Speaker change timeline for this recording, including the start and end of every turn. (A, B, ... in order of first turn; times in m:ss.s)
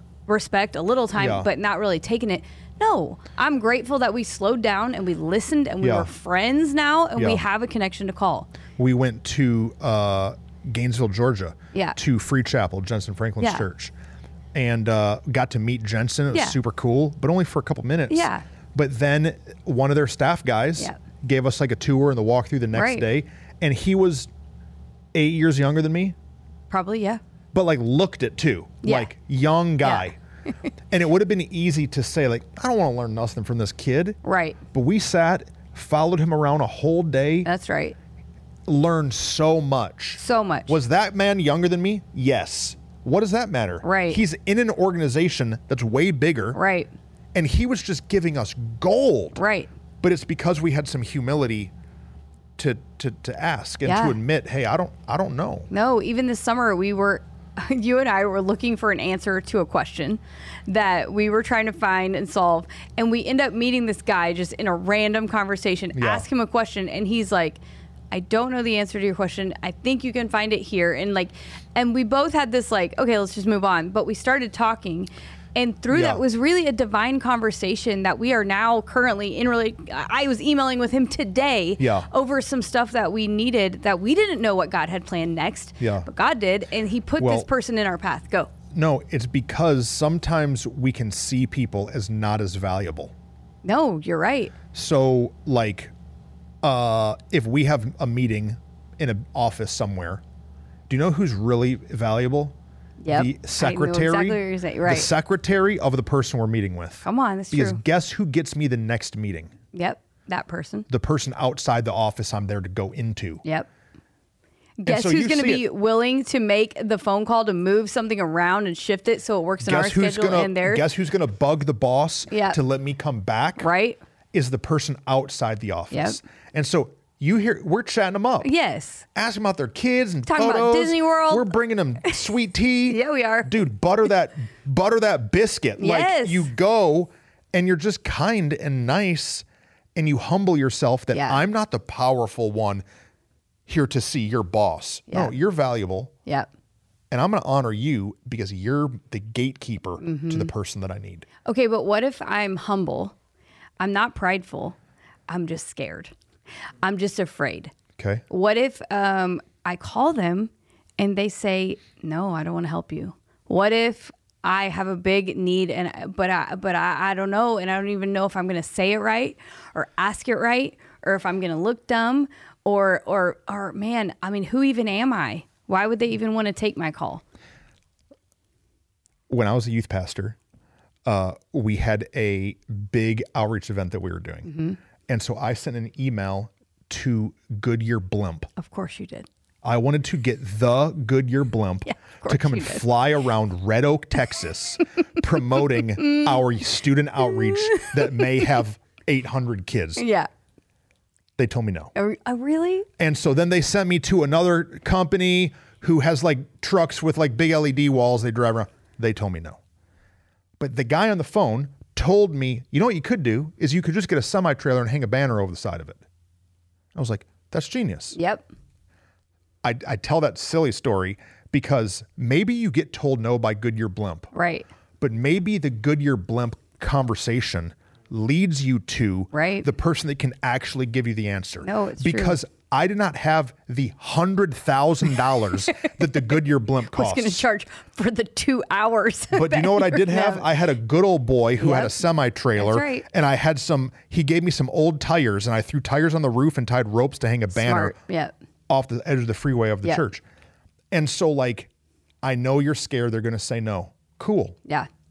0:00.3-0:08.5 A
0:01.2-0:01.5 B
0:05.8-0:06.1 B
0:07.2-0:07.4 B
0:08.8-0:13.9 B
0:13.4-0:13.6 A
0:14.5-0:24.3 B
0:18.1-0:18.4 A
0:22.7-0:23.0 A
0:25.1-0:26.1 B
0:26.7-0:27.2 A
0:27.5-0:30.2 B
0:28.8-0:29.1 A
0:29.8-0:30.1 A
0:30.9-0:34.2 B
0:34.2-0:34.6 A
0:34.7-0:37.5 B
0:37.4-0:38.0 A
0:38.7-0:46.6 B
0:40.2-0:40.8 A
0:43.8-0:44.2 A
0:46.5-0:46.9 A
0:47.3-0:49.4 B
0:49.4-0:49.7 A
0:50.0-0:51.7 B
0:52.6-0:55.7 B
0:53.8-0:54.2 A
0:55.7-1:07.6 A
1:05.9-1:06.2 B
1:08.1-1:28.5 A
1:15.9-1:16.2 B
1:21.8-1:22.1 B
1:25.8-1:26.1 B
1:27.2-1:27.5 B
1:28.7-1:33.1 B
1:33.6-1:34.5 A
1:34.7-1:35.9 B
1:36.6-1:40.2 B
1:40.9-1:42.6 B
1:43.0-1:45.1 A
1:43.1-1:49.5 B
1:47.0-1:47.8 A
1:49.7-1:50.9 A
1:50.9-1:53.4 B
1:54.8-2:00.8 A
1:54.8-1:55.6 B
1:59.6-2:03.7 B
2:02.3-2:02.6 A
2:03.6-2:04.0 A
2:04.3-2:08.5 B
2:05.9-2:06.2 A
2:08.4-2:09.0 A
2:09.1-2:22.8 B
2:10.2-2:11.5 A
2:12.9-2:13.7 A
2:15.8-2:16.5 A
2:21.1-2:21.4 A
2:23.7-2:26.1 B
2:27.1-2:31.3 B
2:30.0-2:30.5 A
2:31.4-2:33.1 A
2:33.8-2:34.7 A
2:35.3-2:36.1 A
2:36.8-2:37.7 A
2:38.0-2:38.2 B
2:38.3-2:57.2 A
2:59.3-3:00.4 B
3:01.0-3:04.5 B
3:04.4-3:04.8 A
3:05.1-3:08.5 B
3:08.6-3:09.3 A
3:09.6-3:20.0 B
3:11.8-3:12.8 A
3:16.0-3:16.3 A
3:17.6-3:18.2 A
3:20.0-3:20.3 A
3:21.4-3:21.9 B
3:21.9-3:22.9 A
3:23.0-3:29.6 B
3:30.6-3:36.0 B
3:36.9-3:38.2 B
3:38.1-3:38.4 A
3:39.6-3:44.3 B
3:44.3-3:44.6 A
3:45.0-3:57.4 B
3:49.3-3:49.7 A
3:51.6-3:52.4 A
3:56.9-4:00.5 A
3:59.3-4:07.9 B
4:01.6-4:01.9 A
4:02.6-4:03.0 A
4:07.5-4:08.3 A
4:08.7-4:10.2 B
4:10.9-4:11.7 B
4:12.2-4:14.6 B